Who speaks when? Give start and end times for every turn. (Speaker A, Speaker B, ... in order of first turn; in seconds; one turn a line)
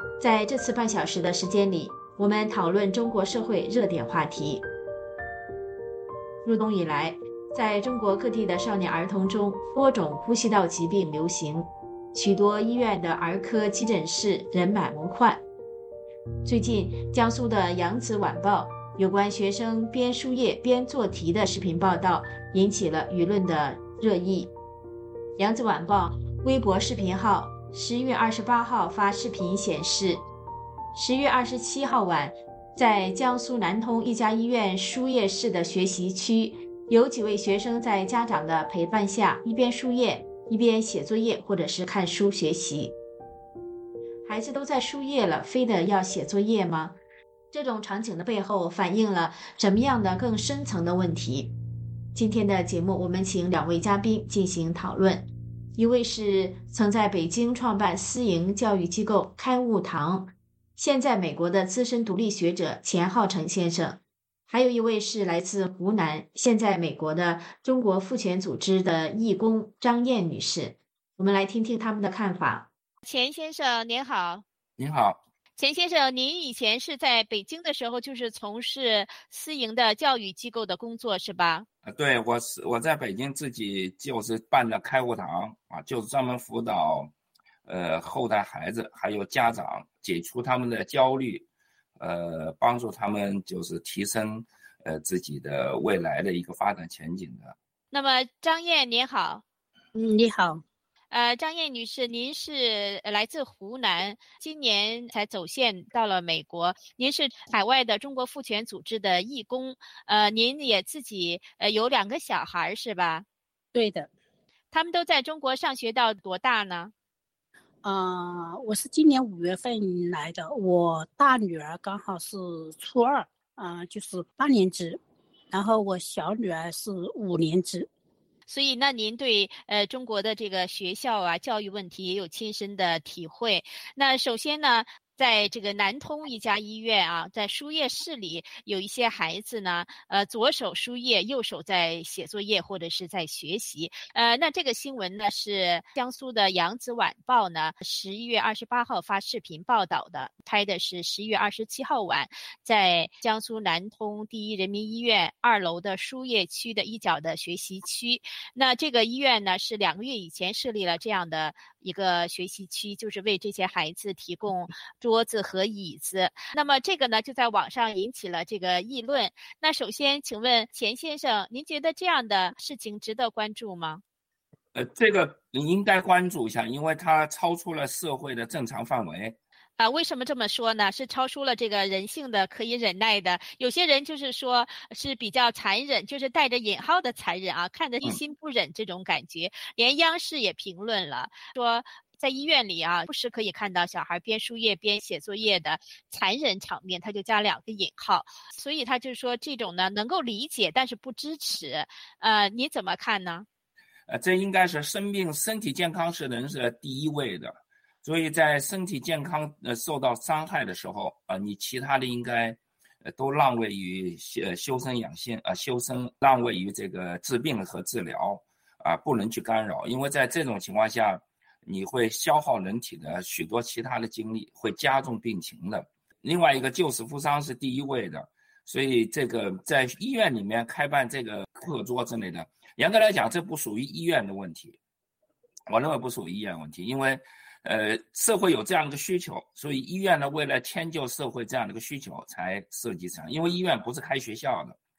Speaker A: 0.2-4.7
Speaker A: 6.5-15.4
Speaker A: 16.4-24.5
Speaker A: 25.4-30.2
Speaker A: 30.9-43.0
Speaker A: 44.3-47.0
Speaker A: 47.5-51.5
Speaker A: 52.1-72.7
Speaker B: 73.0-74.4
Speaker C: 74.8-75.2
Speaker B: 75.6-81.7
Speaker C: 81.8-87.1
Speaker C: 87.7-91.5
Speaker C: 92.0-97.5
Speaker B: 97.9-99.4
Speaker D: 100.0-100.6
Speaker B: 101.1-113.2
Speaker D: 113.7-114.1
Speaker B: 114.7-116.9
Speaker D: 117.8-125.0
Speaker D: 125.5-127.9
Speaker B: 128.5-174.0
Speaker C: 174.7-179.4
Speaker B: 179.8-203.5
Speaker C: 204.1-234.8
Speaker C: 235.7-244.8